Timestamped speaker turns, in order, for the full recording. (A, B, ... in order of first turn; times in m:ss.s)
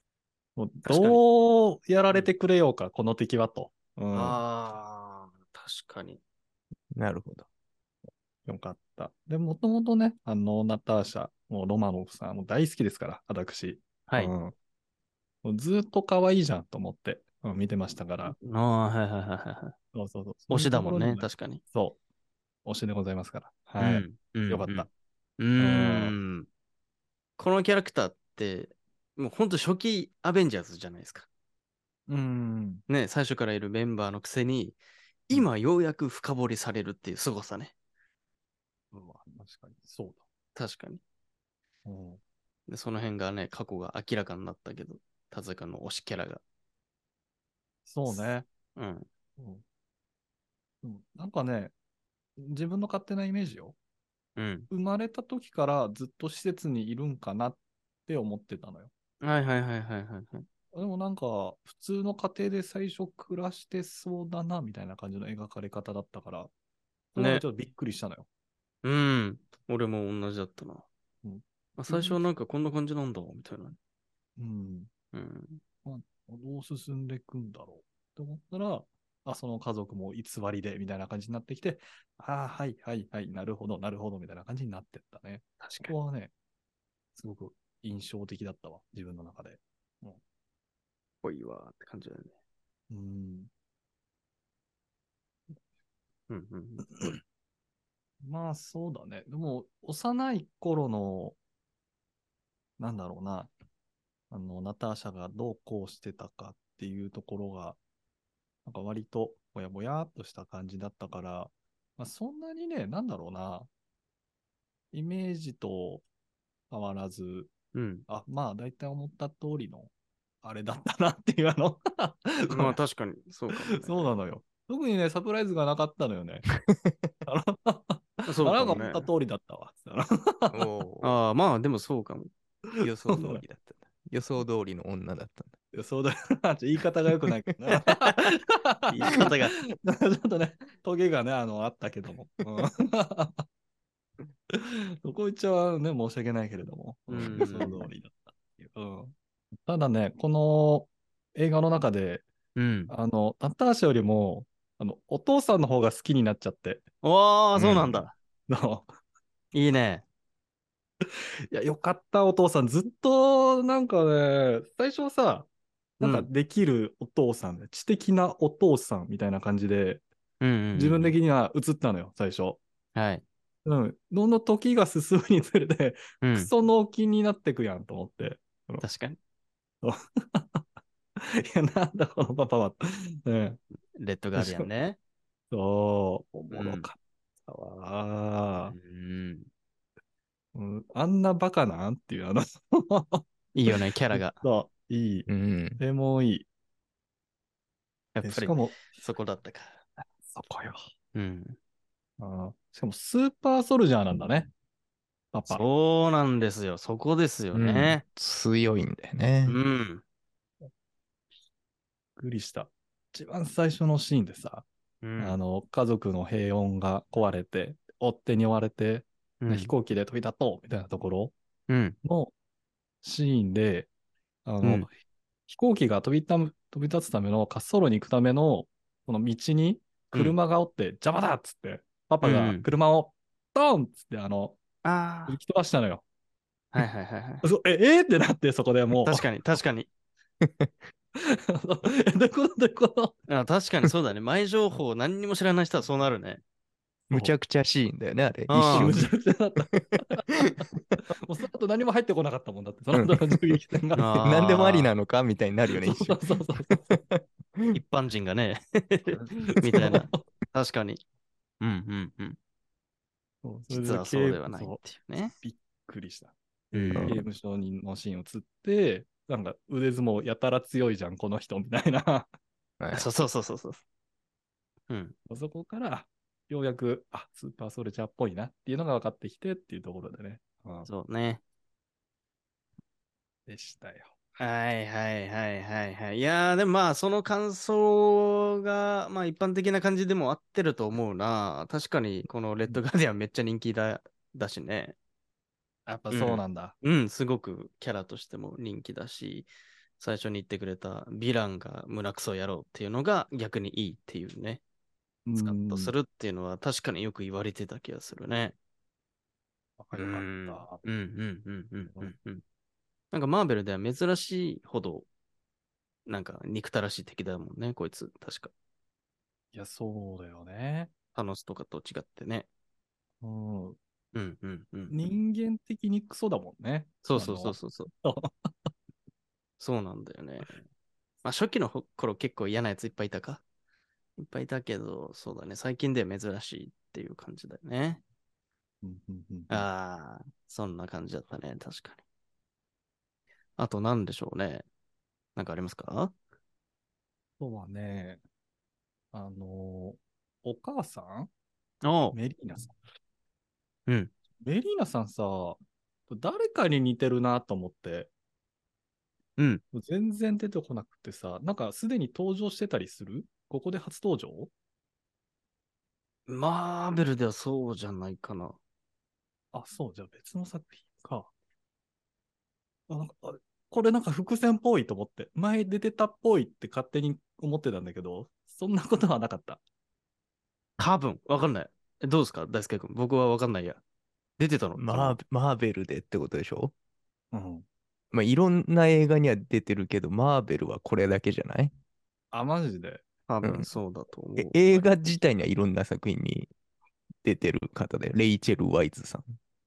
0:00.6-0:04.4 A
0:00.9-0:01.2 B
0:04.1-0:06.2 B
0:06.9-0:07.5 C
0:08.5-0:14.5 A
0:14.1-0:14.3 B
0:15.4-0:18.4 A
0:18.3-0:19.8 B
0:19.9-0:22.0 A
0:20.5-0:21.6 B
0:22.6-0:24.9 A
0:23.8-0:24.9 B
0:25.4-0:26.5 B
0:25.6-0:26.1 A
0:27.4-0:31.3 B
0:32.1-0:32.8 A
0:32.9-0:37.7 B
0:38.9-0:40.2 A
0:40.6-0:41.0 B
0:41.9-0:42.2 A
0:42.7-0:46.4 B
0:47.9-0:48.5 A
0:48.1-0:49.1 B
0:49.4-0:49.6 A
0:50.8-0:51.7 A
0:52.4-0:53.8 A
0:54.4-0:54.7 B
0:54.7-0:58.9 A
0:59.2-1:00.5 B
1:00.7-1:06.5 A
1:07.1-1:08.3 A
1:07.2-1:07.4 B
1:08.8-1:10.9 B
1:11.2-1:12.2 A
1:11.8-1:13.8 B
1:14.4-1:14.9 A
1:15.1-1:15.6 B
1:15.8-1:26.3 A
1:25.6-1:25.9 B
1:27.2-1:30.2 A
1:31.2-1:32.3 B
1:32.9-1:33.5 A
1:36.3-1:37.2 B
1:36.9-1:37.2 A
1:38.2-1:41.4 A
1:42.8-1:43.5 A
1:44.3-1:47.8 A
1:48.7-1:53.7 A
1:54.9-1:56.0 A
1:56.7-1:57.5 A
1:57.7-1:58.1 B
1:58.1-1:59.9 A
2:00.4-2:02.8 A
2:02.5-2:04.1 B
2:03.5-2:06.5 A
2:06.7-2:07.1 C
2:07.2-2:10.6 A
2:08.3-2:09.1 B
2:10.5-2:11.2 C
2:11.0-2:12.3 B
2:12.8-2:13.4 A
2:12.8-2:15.5 C
2:15.7-2:23.4 A
2:17.9-2:18.3 B
2:18.9-2:19.6 B
2:24.5-2:32.3 A
2:27.1-2:27.9 B
2:27.2-2:27.4 C
2:32.6-2:32.9 B
2:32.9-2:36.8 A
2:37.0-2:38.1 B
2:37.6-2:38.1 C
2:38.5-2:38.9 A
2:39.5-2:40.0 B
2:41.5-2:45.5 A
2:46.0-2:50.0 A
2:46.0-2:46.3 B
2:50.4-2:51.2 B
2:50.8-2:52.6 A
2:53.0-2:53.2 B
2:53.6-2:58.9 A
2:56.2-2:56.5 B
2:58.8-2:59.2 B
2:59.8-3:00.6 A
3:01.2-3:03.6 A
3:04.0-3:05.0 B
3:04.4-3:04.7 A
3:05.5-3:08.8 A
3:06.5-3:06.9 B
3:08.7-3:09.5 B
3:10.6-3:16.5 A
3:13.5-3:14.4 B
3:15.3-3:15.8 C
3:18.2-3:19.8 B
3:18.2-3:18.8 A
3:20.2-3:20.8 A
3:21.1-3:21.6 B
3:22.2-3:24.5 A
3:25.3-3:25.6 A
3:25.5-3:28.0 B
3:27.5-3:29.6 C
3:29.5-3:30.0 B
3:32.2-3:34.7 A
3:35.0-3:35.4 B
3:35.2-3:41.3 A
3:39.4-3:39.7 B
3:41.7-3:42.0 B
3:42.0-3:42.3 A
3:43.0-3:43.9 A
3:44.5-3:45.0 A
3:44.6-3:44.9 B
3:45.5-3:54.6 A
3:52.2-3:52.6 B
3:54.8-3:55.4 B
3:55.3-3:56.0 A
3:56.7-3:57.4 B
3:57.4-3:59.3 A
3:59.0-3:59.9 B
4:01.2-4:03.2 A
4:03.3-4:06.4 B
4:07.1-4:09.1 C
4:08.5-4:09.0 B
4:08.7-4:10.3 A
4:09.7-4:10.6 C
4:10.9-4:14.1 A
4:12.9-4:17.8 C
4:14.0-4:14.9 B
4:15.8-4:16.9 A
4:17.7-4:21.0 B
4:19.1-4:20.2 A
4:21.6-4:22.4 B
4:23.4-4:24.8 A
4:23.7-4:25.4 B
4:25.4-4:32.3 A
4:26.7-4:27.2 B
4:27.0-4:27.2 C
4:32.8-4:33.1 C
4:32.9-4:33.8 B
4:34.9-4:35.2 B
4:35.3-4:40.9 A
4:40.9-4:41.4 B
4:43.5-4:44.2 A
4:44.4-4:55.0 B
4:55.9-4:56.8 A
4:56.1-5:04.6 B
5:05.3-5:05.9 A
5:05.4-5:08.6 B
5:09.8-5:10.8 A
5:10.0-5:12.4 B
5:13.1-5:15.1 B
5:16.1-5:18.5 B
5:19.5-5:20.9 A
5:21.2-5:22.5 B
5:23.2-5:23.8 A
5:24.1-5:25.0 B
5:24.9-5:28.7 A
5:27.0-5:27.9 B
5:29.6-5:30.6 B
5:31.2-5:33.4 B
5:34.2-5:38.0 B
5:38.8-5:39.7 A
5:39.5-5:42.0 B
5:43.6-5:44.6 B
5:45.4-5:46.1 B
5:47.4-5:48.2 A
5:49.1-5:51.3 A
5:51.8-5:52.2 B
5:52.1-5:52.8 A
5:53.9-5:54.1 B
5:54.4-5:58.1 A
5:59.4-5:59.6 B
5:59.7-6:04.5 A
6:06.3-6:08.6 B
6:09.5-6:11.3 A
6:12.9-6:19.6 A
6:20.8-6:23.8 B
6:24.4-6:25.2 B
6:24.8-6:26.7 C
6:27.3-6:27.7 A
6:28.1-6:31.7 C
6:32.3-6:33.0 A
6:33.3-6:34.8 B
6:33.4-6:33.7 C
6:34.4-6:36.5 C
6:37.2-6:39.3 C